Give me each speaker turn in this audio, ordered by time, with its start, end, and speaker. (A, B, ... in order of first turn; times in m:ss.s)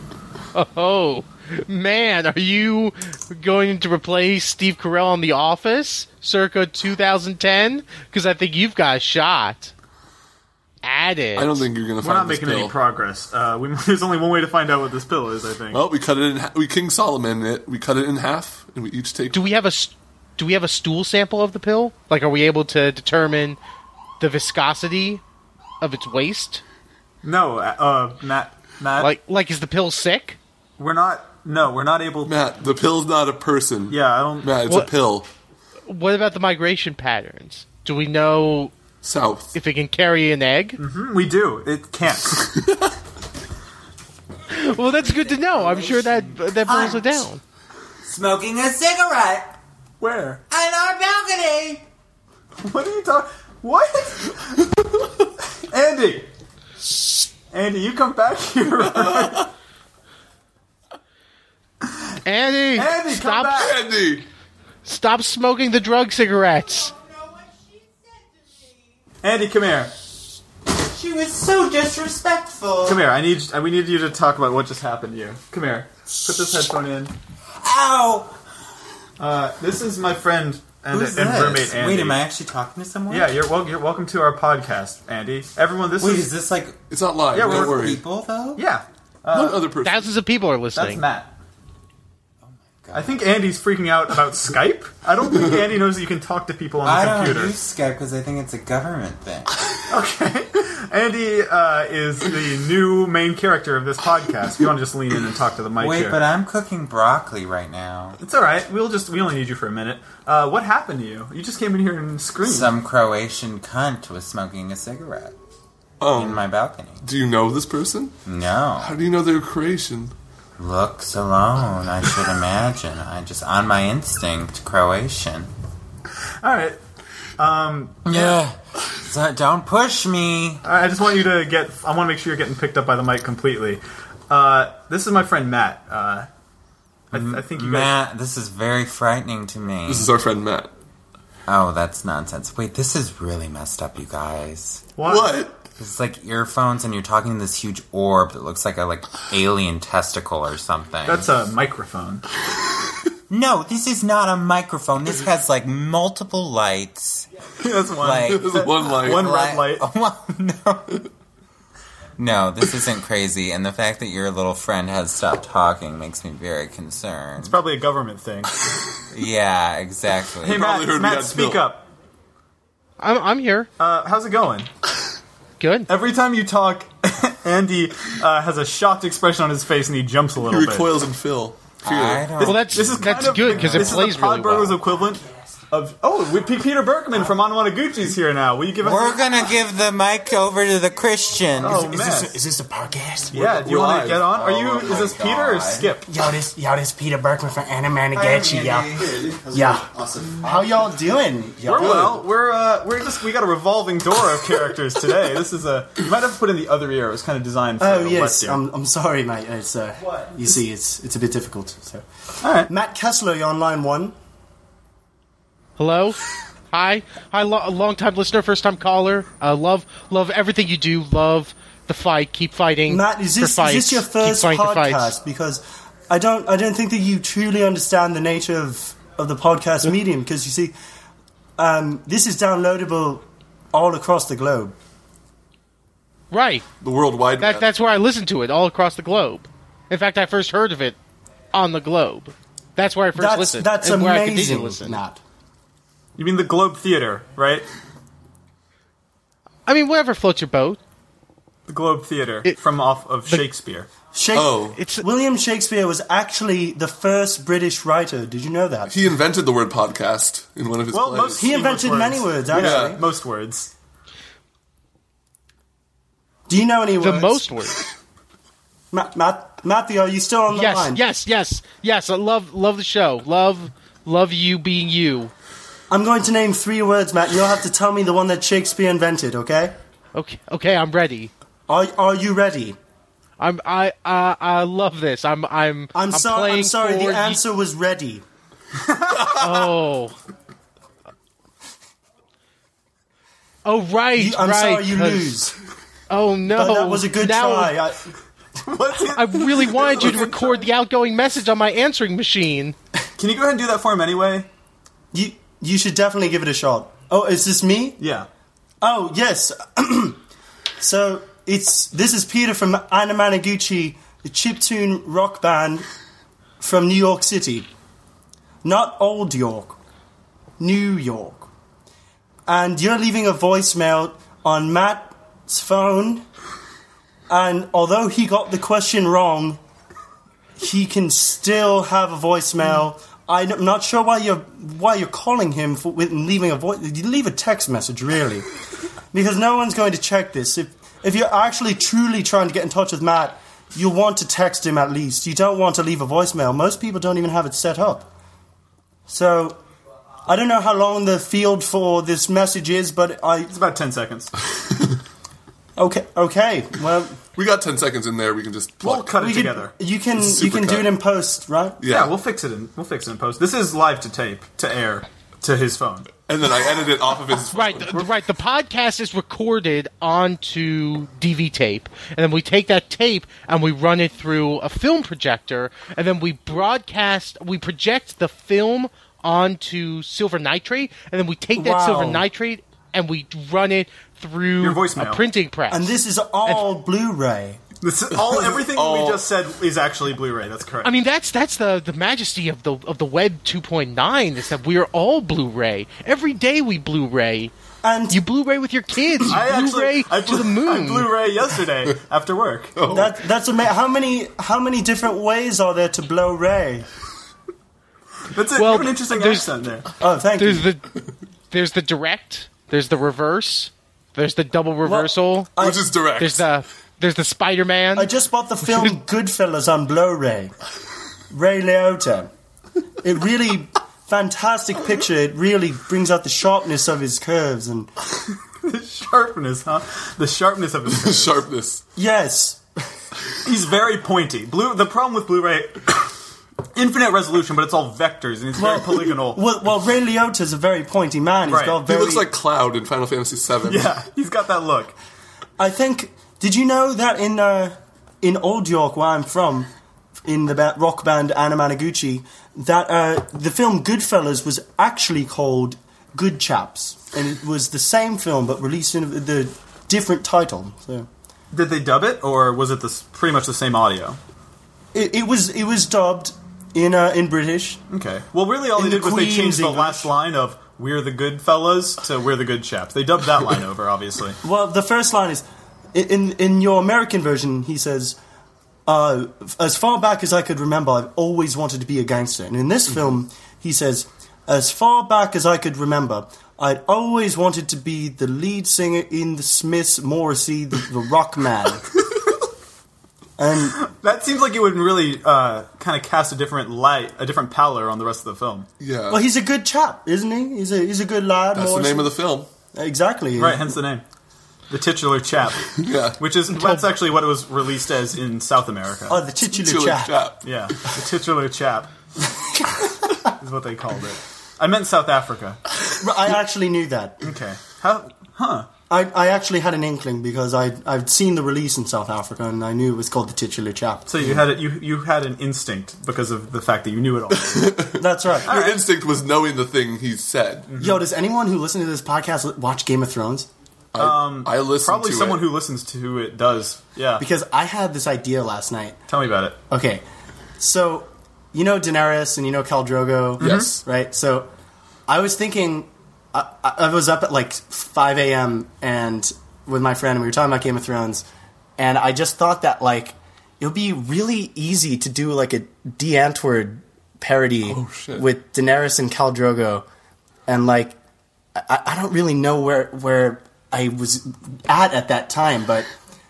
0:00.5-0:09.7 A
0:10.8-0:11.6 A
0:11.4-0:12.7 B
0:12.0-0:15.8 C
0:15.7-0:19.4 B
0:19.3-0:23.6 A
0:24.2-0:25.2 A
0:25.8-0:26.6 A
0:27.2-0:29.1 C
0:29.0-0:30.4 A
0:30.8-0:32.4 C
0:32.2-0:35.3 B
0:33.9-0:34.7 C
0:35.9-0:38.7 A
0:39.0-0:39.6 B
0:39.6-0:40.8 A
0:40.8-0:42.6 C
0:42.6-0:42.9 B
0:44.5-0:47.4 A
0:44.9-0:47.3 D
0:48.0-0:49.5 D
0:50.0-0:50.4 C
0:50.5-0:51.8 D
0:52.6-0:54.7 C
0:55.6-0:56.3 C
0:56.8-0:57.3 A
0:57.5-0:59.5 C
0:59.0-0:59.4 B
1:02.2-1:03.7 A
1:02.8-1:03.8 C
1:03.6-1:04.3 B
1:04.8-1:06.9 A
1:07.1-1:07.9 D
1:09.2-1:09.9 C
1:10.7-1:13.0 D
1:12.8-1:17.1 C
1:17.6-1:18.3 D
1:19.2-1:22.2 C
1:20.9-1:23.4 D
1:23.1-1:26.3 C
1:26.0-1:26.8 D
1:26.9-1:28.0 B
1:27.3-1:27.8 C
1:27.3-1:28.7 D
1:28.6-1:29.7 C
1:29.3-1:30.1 B
1:29.8-1:31.0 A
1:30.8-1:31.3 C
1:32.5-1:33.2 D
1:32.9-1:37.5 C
1:36.8-1:39.5 D
1:39.9-1:46.2 C
1:45.8-1:48.2 D
1:48.2-1:52.7 C
1:52.4-1:55.4 D
1:56.0-1:56.5 B
1:56.1-1:57.0 D
1:57.0-1:58.2 B
1:58.3-1:58.9 D
1:58.8-2:00.1 B
2:00.6-2:05.5 D
2:06.4-2:06.8 C
2:07.4-2:08.3 C
2:08.0-2:10.6 D
2:10.6-2:16.3 C
2:17.1-2:18.0 C
2:17.1-2:20.1 D
2:19.9-2:20.7 B
2:21.5-2:24.8 D
2:25.0-2:25.5 C
2:25.0-2:25.6 B
2:25.8-2:31.3 D
2:31.1-2:32.3 C
2:33.3-2:37.3 D
2:37.6-2:39.9 C
2:38.0-2:41.1 D
2:38.3-2:39.3 B
2:42.2-2:47.6 D
2:47.4-2:48.5 C
2:49.1-2:50.8 D
2:50.4-2:51.9 C
2:50.4-2:51.7 B
2:53.0-2:53.7 A
2:53.8-2:54.7 C
2:55.6-2:55.9 A
2:55.9-3:01.1 C
3:00.4-3:02.4 B
3:01.8-3:04.2 D
3:02.4-3:09.5 C
3:02.5-3:04.8 A
3:08.8-3:12.0 D
3:11.6-3:12.4 C
3:11.7-3:13.4 E
3:13.3-3:14.4 B
3:13.3-3:16.1 C
3:14.2-3:15.9 D
3:16.1-3:19.0 E
3:18.1-3:20.7 D
3:19.5-3:19.9 E
3:20.4-3:22.2 E
3:21.6-3:28.6 C
3:21.7-3:22.2 B
3:27.8-3:32.0 E
3:32.4-3:32.7 C
3:32.7-3:34.2 E
3:35.8-3:36.2 A
3:36.7-3:45.2 A
3:42.9-3:50.7 E
3:51.6-3:54.8 E
3:56.3-3:56.6 A
3:56.8-3:57.7 B
3:57.4-4:01.0 A
4:01.5-4:05.0 A
4:03.2-4:05.2 E
4:06.2-4:07.7 C
4:09.7-4:10.8 A
4:11.7-4:13.9 C
4:14.1-4:18.9 E
4:14.3-4:14.8 B
4:14.8-4:15.0 A
4:18.9-4:21.4 B
4:20.9-4:23.7 C
4:21.4-4:23.0 E
4:22.5-4:23.0 B
4:26.5-4:27.5 E
4:27.0-4:27.7 A
4:28.9-4:31.0 E
4:30.5-4:35.3 A
4:35.9-4:39.7 E
4:40.2-4:41.3 A
4:41.7-4:42.8 E
4:43.4-4:47.4 A
4:45.9-4:48.2 E
4:48.8-4:49.3 C
4:49.3-4:50.2 A
4:49.3-4:49.7 B
4:53.6-4:55.4 A
4:54.2-4:55.6 E
4:56.1-4:57.8 A
4:56.5-4:58.0 E
4:58.7-5:00.7 C
4:59.1-5:02.8 A
5:03.2-5:04.5 C
5:05.1-5:08.0 E
5:08.0-5:08.3 C
5:08.8-5:10.2 E
5:10.8-5:15.9 E
5:16.6-5:17.7 E
5:18.6-5:19.8 E
5:20.6-5:21.5 E
5:22.5-5:26.2 E
5:27.3-5:29.6 E
5:30.6-5:38.5 E
5:39.1-5:48.1 E
5:49.1-5:49.6 E
5:50.3-5:53.5 E
5:53.5-5:54.4 C
5:55.8-5:57.2 E
5:57.4-5:59.2 B
5:58.8-5:59.7 C
5:59.1-6:01.8 E
6:00.2-6:00.9 B
6:01.8-6:02.2 B
6:01.9-6:06.1 C
6:06.3-6:08.1 B
6:07.5-6:25.9 A
6:21.6-6:22.3 E
6:24.6-6:25.2 C
6:25.7-6:27.6 E
6:27.8-6:30.9 C
6:28.4-6:29.2 B
6:30.8-6:37.5 A
6:37.8-6:38.2 E
6:38.1-6:41.1 A
6:39.3-6:42.8 C
6:42.8-6:43.1 B
6:42.9-6:46.9 E
6:48.3-6:49.9 C
6:48.6-6:49.5 A
6:50.0-6:50.7 E
6:50.4-6:50.9 A
6:51.5-6:55.5 A
6:54.8-6:55.9 E
6:55.6-6:56.4 B
6:56.1-6:58.1 A
6:58.0-7:00.5 E
7:01.3-7:02.3 E
7:03.0-7:07.9 E
7:08.6-7:11.4 C
7:10.9-7:11.8 B
7:12.0-7:12.6 E
7:13.4-7:16.1 C
7:16.8-7:19.4 C
7:18.6-7:22.3 E
7:21.5-7:21.8 C
7:21.8-7:24.0 B
7:23.6-7:25.0 C
7:25.6-7:29.7 E
7:30.2-7:41.1 E
7:41.5-7:44.2 C
7:44.9-7:47.8 E
7:47.9-7:54.4 C
7:48.8-7:50.1 E
7:54.4-7:58.2 E
7:58.9-8:11.9 E
8:13.4-8:13.8 E
8:13.8-8:18.7 C
8:18.8-8:19.2 B
8:19.1-8:22.1 E
8:21.5-8:22.5 B
8:22.7-8:23.8 E
8:23.4-8:24.0 C
8:24.7-8:29.2 C
8:25.8-8:26.2 B
8:26.5-8:26.8 A
8:29.1-8:30.3 E
8:29.5-8:30.4 B
8:30.4-8:31.9 C
8:33.3-8:35.6 C
8:36.0-8:37.2 E
8:37.2-8:38.7 C
8:38.9-8:44.4 E
8:44.1-8:47.9 C
8:47.5-8:50.8 B
8:48.0-8:48.5 E
8:48.4-8:48.9 C
8:50.8-8:53.5 E
8:53.9-8:55.5 B
8:54.0-8:57.2 C
8:57.2-8:59.0 E
8:59.1-8:59.6 C
8:59.7-9:00.0 E
9:00.6-9:04.5 E
9:03.4-9:03.7 C
9:03.4-9:03.8 B
9:05.1-9:11.2 E
9:11.8-9:19.8 E
9:17.7-9:18.2 B
9:20.5-9:21.0 E
9:21.6-9:25.9 E